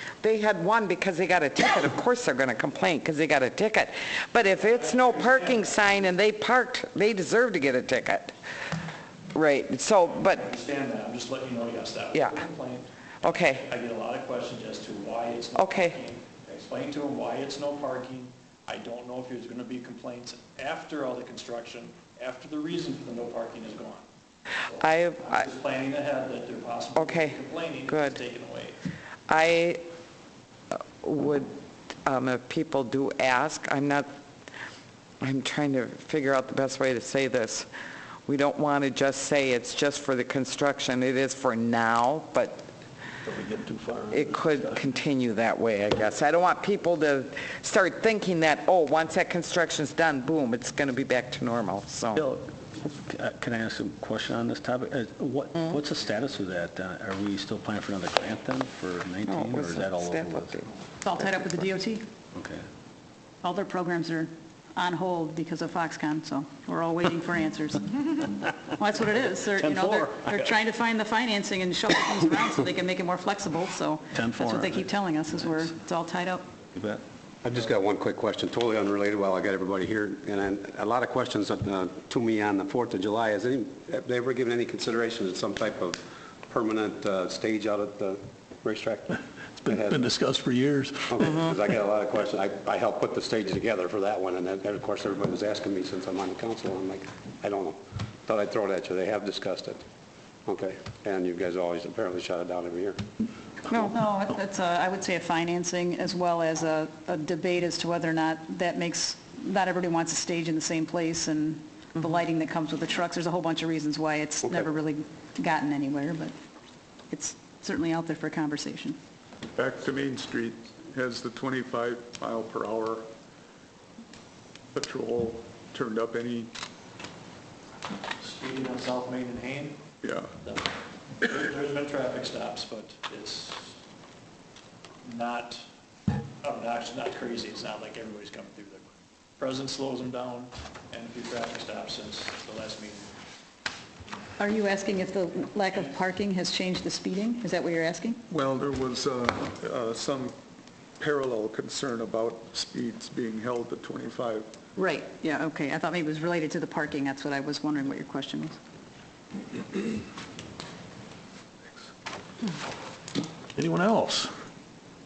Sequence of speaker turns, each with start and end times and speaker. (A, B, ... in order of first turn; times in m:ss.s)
0:00.2-0:08.4 A
0:04.5-0:06.0 B
0:09.3-0:10.5 A
0:10.3-0:24.0 B
0:12.1-0:12.4 A
0:13.2-0:13.6 A
0:15.6-0:16.0 A
0:24.6-0:28.8 B
0:24.8-0:25.4 A
0:27.0-0:28.2 A
0:29.3-0:29.8 A
0:30.7-0:31.5 A
0:32.1-0:34.1 A
0:35.2-0:37.7 A
0:38.3-0:42.7 A
0:43.2-0:44.3 C
0:44.1-0:52.2 A
0:52.2-1:00.6 D
0:59.2-1:00.7 A
1:01.0-1:02.0 E
1:01.2-1:01.5 A
1:02.4-1:02.7 D
1:03.4-1:16.5 E
1:09.3-1:10.4 D
1:14.1-1:14.9 D
1:16.8-1:17.0 D
1:17.4-1:30.1 F
1:29.6-1:31.2 C
1:31.1-1:39.8 F
1:40.5-1:43.0 F
1:43.7-1:56.3 E
1:57.1-1:59.0 E
1:59.6-2:03.1 G
2:04.7-2:06.5 G
2:08.2-2:09.8 B
2:10.0-2:10.3 G
2:10.4-2:10.7 B
2:11.2-2:13.8 B
2:15.0-2:15.6 B
2:16.4-2:23.1 B
2:24.4-2:28.2 E
2:28.3-2:30.4 G
2:31.0-2:34.5 G
2:34.8-2:38.6 E
2:43.6-2:44.3 C